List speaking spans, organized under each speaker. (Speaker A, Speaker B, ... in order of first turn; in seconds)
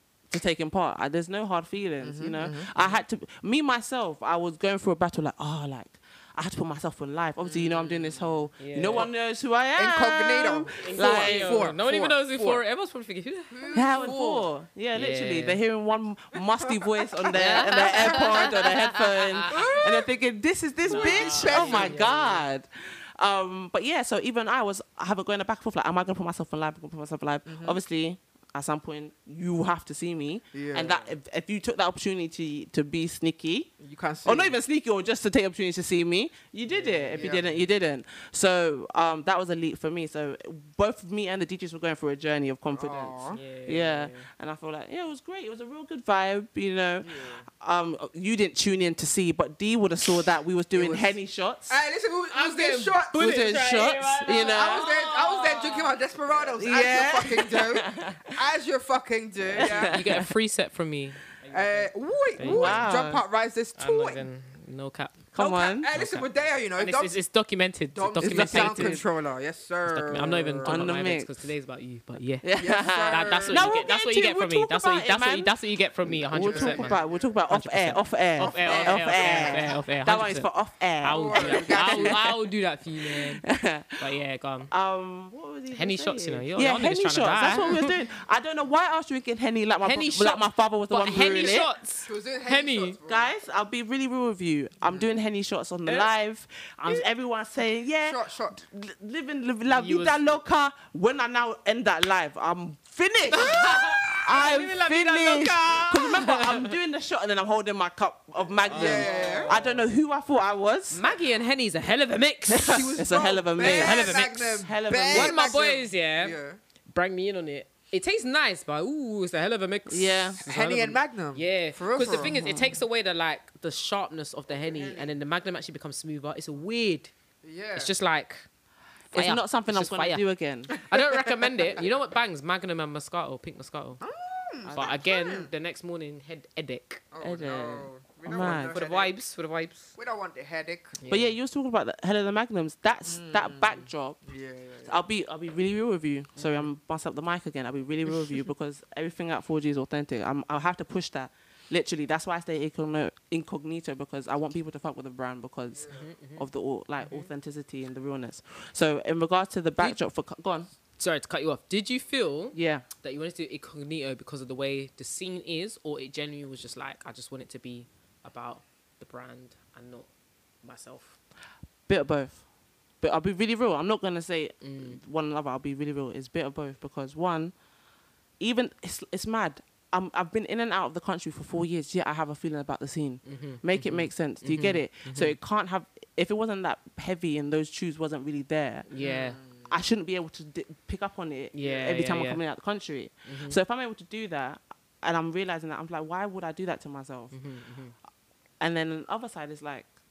Speaker A: 0.3-11.7, 13.8-33.7, 34.2-51.8, 53.1-54.9, 56.6-58.3, 59.5-60.3, 62.4-63.2, 65.3-65.9, 68.2-69.0, 70.6-71.3, 72.4-82.4, 83.0-84.0, 84.7-91.7, 93.1-111.0, 112.5-115.4, 119.9-120.4, 122.0-122.8, 129.1-130.8, 134.7-135.0, 137.2-138.8, 141.1-144.2, 144.8-160.7, 162.5-162.8, 171.9-172.4, 173.0-177.5, 178.4-188.9, 189.7-197.3, 198.6-199.9
Speaker B: 2.0-3.0, 7.4-8.2, 9.8-12.6, 13.5-14.5, 17.3-18.8, 19.5-20.1, 20.9-22.2, 27.5-27.8, 30.5-31.1, 33.8-34.6, 37.1-37.6, 42.7-43.4, 47.0-47.5, 50.7-51.1, 51.7-53.5, 54.3-60.0, 61.5-64.2, 65.4-67.2, 67.9-70.9, 72.6-73.8, 76.3-77.2, 78.4-79.8, 81.1-82.2, 87.5-87.9, 91.2-93.3, 98.1-98.6, 108.7-109.6, 112.6-116.6, 120.4-122.4, 124.6-125.1, 127.4-127.9, 130.9-131.8, 134.0-135.5, 137.1-139.1, 140.0-141.0, 143.1-145.0, 155.7-156.1, 189.0-189.7
Speaker C: 8.6-9.1, 10.8-14.1, 14.9-15.6, 17.3-19.6, 20.9-22.4, 36.7-37.3, 43.3-44.3, 52.3-55.9, 59.6-62.9, 63.8-65.3, 65.9-69.0, 69.9-80.5, 81.0-83.5, 84.0-84.7, 85.7-87.9, 89.8-93.0, 99.7-100.4, 103.3-106.7, 108.7-109.9, 110.9-112.9, 113.6-114.6, 115.1-116.4, 116.9-127.1, 127.8-128.5, 129.1-134.0, 134.7-137.0, 138.3-139.9, 141.0-141.4, 146.4-146.7, 155.9-156.5, 161.0-170.1, 170.6-171.2, 174.6-175.0, 183.3-185.4, 188.9-189.4, 191.5-192.4, 193.3-193.6, 197.3-197.9